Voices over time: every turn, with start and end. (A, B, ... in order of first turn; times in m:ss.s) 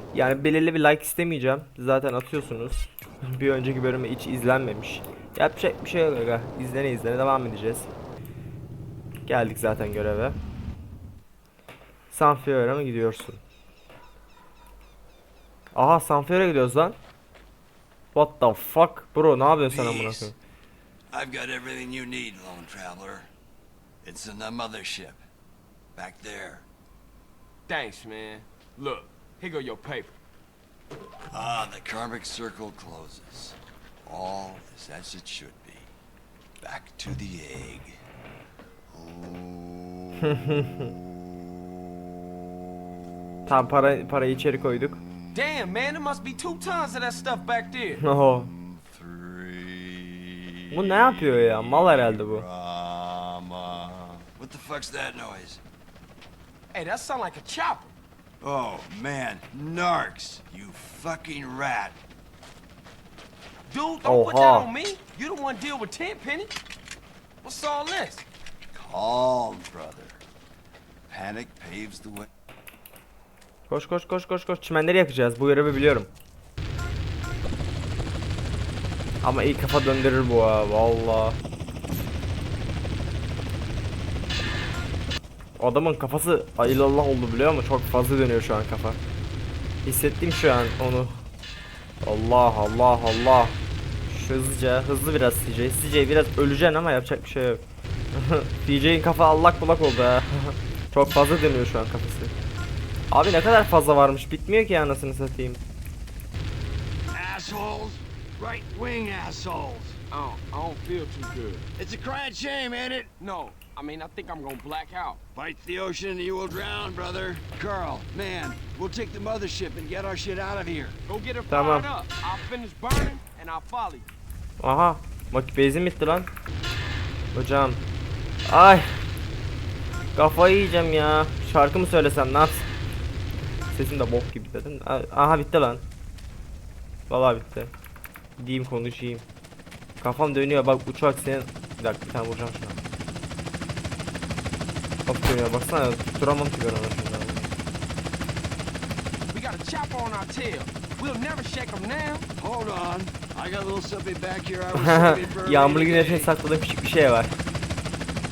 0:00.1-0:07.9 A
0:09.3-0:10.4 A
0:12.1-0:13.4 A
0:15.7-0:17.0 A
0:18.1-0:20.4 A
0:19.6-0:20.3 B
0:21.1-0:23.3 B
0:24.0-0:25.2 B
0:26.0-0:26.7 B
0:27.7-0:30.2 C
0:31.3-0:35.9 B
0:36.6-0:38.0 B
0:38.9-0:41.1 B
0:40.3-0:40.9 A
0:43.5-0:45.0 A
0:45.3-0:48.0 C
0:48.0-0:48.5 A
0:48.3-0:55.6 B
0:50.7-0:52.5 A
0:56.7-0:57.9 C
0:58.4-1:02.0 B
1:03.7-1:06.6 C
1:04.0-1:04.7 A
1:07.4-1:08.3 C
1:08.7-1:10.2 B
1:11.1-1:12.3 B
1:13.7-1:16.1 A
1:19.2-1:21.4 A
1:25.6-1:29.0 A
1:29.8-1:31.2 A
1:32.0-1:33.6 A
1:34.1-1:37.6 A
1:38.1-1:42.3 A
1:43.1-1:45.6 A
1:47.1-1:50.0 B
1:50.1-1:51.7 C
1:51.8-1:53.1 B
1:53.2-1:55.2 C
1:55.4-2:01.0 B
2:01.1-2:04.1 C
2:01.5-2:01.9 A
2:04.6-2:06.3 A
2:07.3-2:07.8 A
2:08.5-2:09.0 A
2:10.2-2:12.7 A
2:13.7-2:15.8 A
2:17.1-2:17.7 A
2:18.4-2:19.2 A
2:20.0-2:22.8 A
2:25.1-2:27.5 A
2:29.3-2:32.3 C
2:32.4-2:36.3 B
2:34.7-2:37.4 A